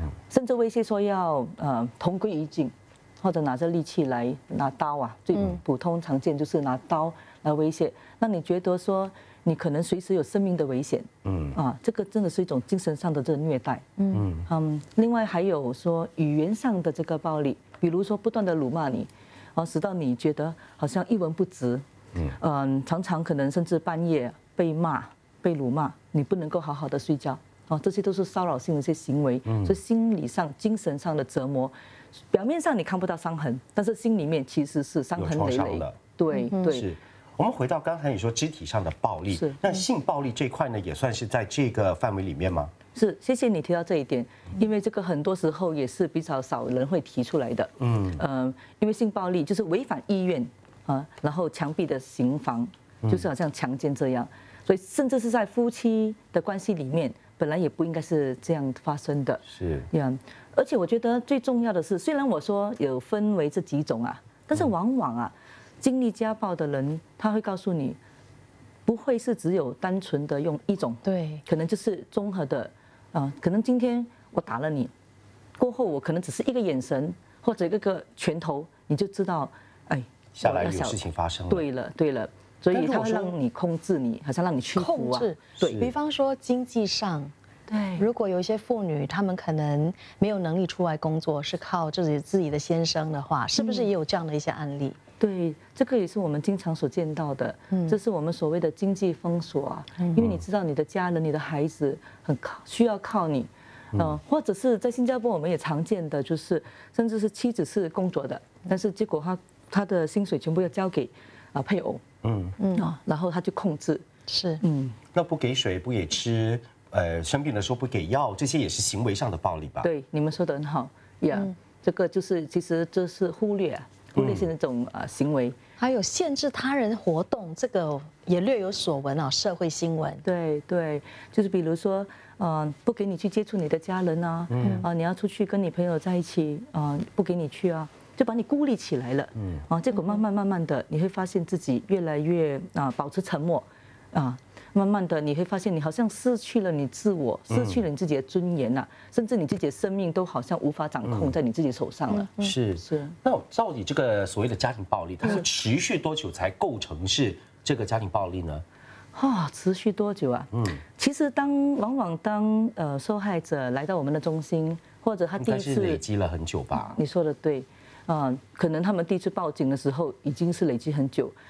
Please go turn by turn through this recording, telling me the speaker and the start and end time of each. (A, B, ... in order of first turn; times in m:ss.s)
0:00.3-0:13.8 A
0:11.2-0:11.6 B
0:14.0-0:14.2 C
0:14.1-0:14.5 B
0:14.5-0:21.8 A
0:22.4-0:31.7 A
0:29.5-0:29.8 B
0:32.3-0:36.9 A
0:35.2-0:36.0 B
0:36.6-0:42.7 B
0:39.3-0:39.6 A
0:42.9-1:08.0 A
0:47.8-0:48.2 B
0:59.5-0:59.9 B
1:08.9-1:14.9 A
1:11.0-1:11.4 C
1:15.6-1:25.8 A
1:20.4-1:21.7 B
1:22.7-1:23.4 C
1:24.8-1:27.3 C
1:25.6-1:25.9 B
1:27.7-1:28.1 A
1:28.0-1:35.0 C
1:33.6-1:33.9 A
1:35.2-1:52.0 A
1:37.7-1:38.0 C
1:40.2-1:40.4 B
1:52.2-1:52.6 B
1:52.6-1:52.9 C
1:52.7-1:54.0 A
1:54.3-1:54.6 C
1:54.6-1:55.0 A
1:55.1-1:59.9 B
1:59.8-2:05.6 A
2:04.2-2:04.5 B
2:05.8-2:10.2 C
2:10.2-2:33.2 A
2:14.5-2:14.9 B
2:27.5-2:27.8 B
2:31.0-2:31.3 B
2:32.1-2:32.5 C
2:32.4-2:38.6 B
2:39.1-2:46.0 A
2:40.5-2:40.8 B
2:45.4-2:47.0 B
2:47.0-2:51.4 A